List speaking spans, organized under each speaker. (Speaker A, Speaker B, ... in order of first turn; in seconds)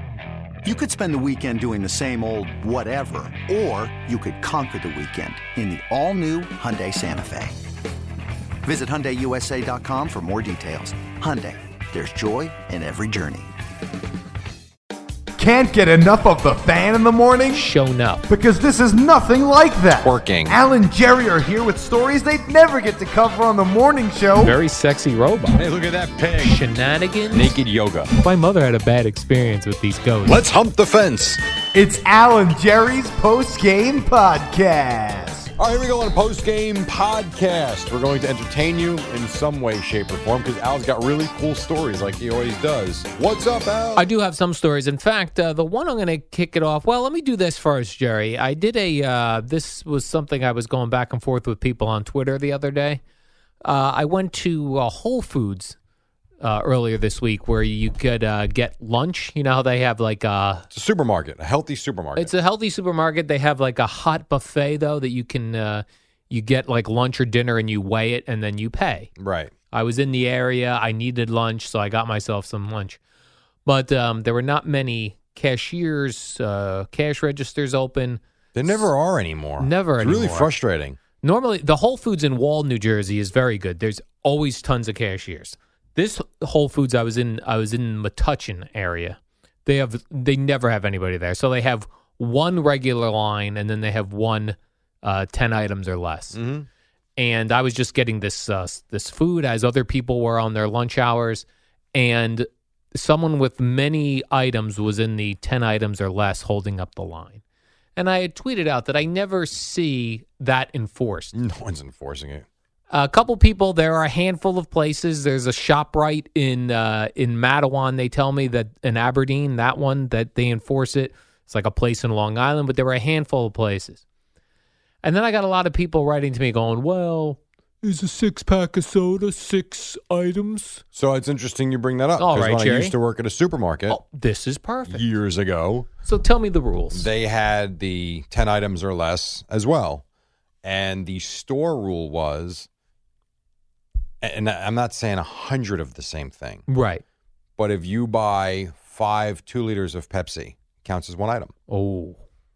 Speaker A: 0.6-7.6, 8.6-13.5
Speaker B: 15.4-17.7, 18.3-24.6, 31.7-35.5
Speaker C: 17.5-18.2, 24.4-25.6, 26.4-27.6, 28.2-30.4, 44.0-53.0, 53.6-55.8, 56.4-60.7, 62.2-69.1, 69.7-73.0, 73.7-78.9, 79.6-80.5, 81.2-96.4, 97.2-107.4, 108.0-111.3, 112.9-124.0, 125.0-130.8, 132.2-132.9, 133.9-135.1, 136.1-137.1, 146.7-147.0, 151.7-152.2
Speaker D: 20.0-20.6, 25.5-26.6, 27.3-28.1, 30.2-31.4, 35.6-44.1, 60.7-62.3, 69.2-69.5, 78.5-81.0, 96.3-96.7, 111.3-112.5, 130.9-134.0, 134.9-135.9, 136.9-140.0, 140.6-142.7, 144.2-146.7, 147.6-151.5